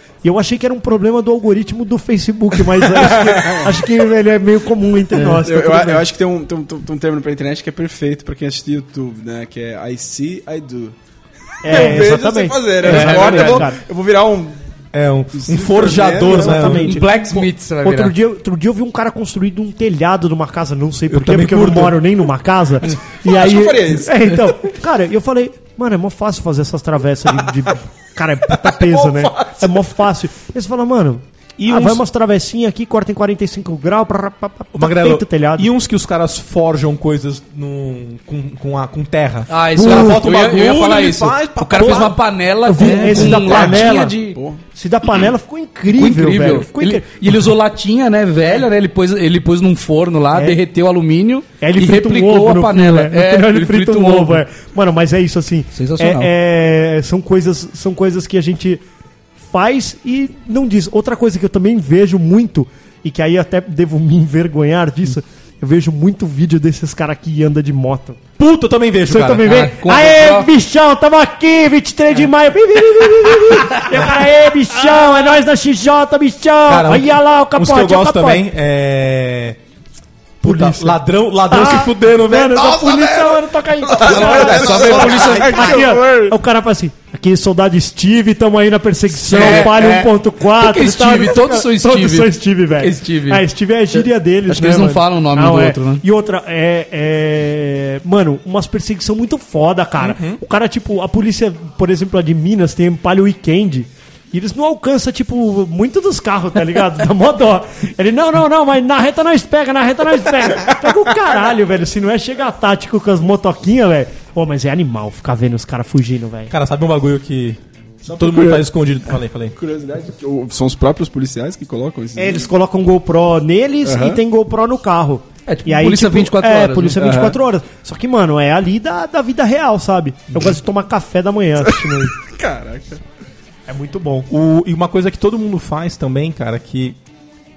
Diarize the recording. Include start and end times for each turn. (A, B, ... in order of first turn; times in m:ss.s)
0:00.2-0:06.0 A
0:02.8-0:03.8 B
0:05.2-0:10.9 B
0:11.6-0:13.8 A
0:11.6-0:14.6 B
0:12.8-0:13.6 C
0:14.9-0:17.0 D
0:15.3-0:16.8 B
0:16.2-0:35.7 A
0:16.7-0:18.1 C
0:21.1-0:22.0 D
0:23.2-0:24.5 B
0:28.5-0:29.8 B
0:34.7-0:42.2 D
0:39.5-0:44.4 C
0:41.8-0:42.1 A
0:42.6-0:44.1 A
0:42.8-0:43.8 D
0:43.5-0:44.6 B
0:44.7-0:47.1 A
0:45.9-0:54.4 C
0:50.3-0:50.6 A
0:51.6-0:58.8 A
0:55.7-0:56.3 C
0:59.4-1:08.2 A
1:08.4-1:09.7 D
1:09.1-1:18.4 A
1:09.4-1:10.5 C
1:16.7-1:19.6 D
1:20.4-1:22.8 D
1:20.4-1:56.5 A
1:22.5-1:26.4 B
1:24.0-1:25.9 C
1:24.7-1:25.4 D
1:29.3-1:36.0 C
1:40.0-1:40.4 D
1:56.5-1:59.5 D
1:58.0-1:58.6 B
1:59.5-2:02.5 B
2:02.2-2:12.1 A
2:03.8-2:04.2 B
2:05.5-2:07.0 C
2:07.0-2:07.4 B
2:11.6-2:13.0 B
2:13.7-2:14.3 A
2:14.3-2:17.0 D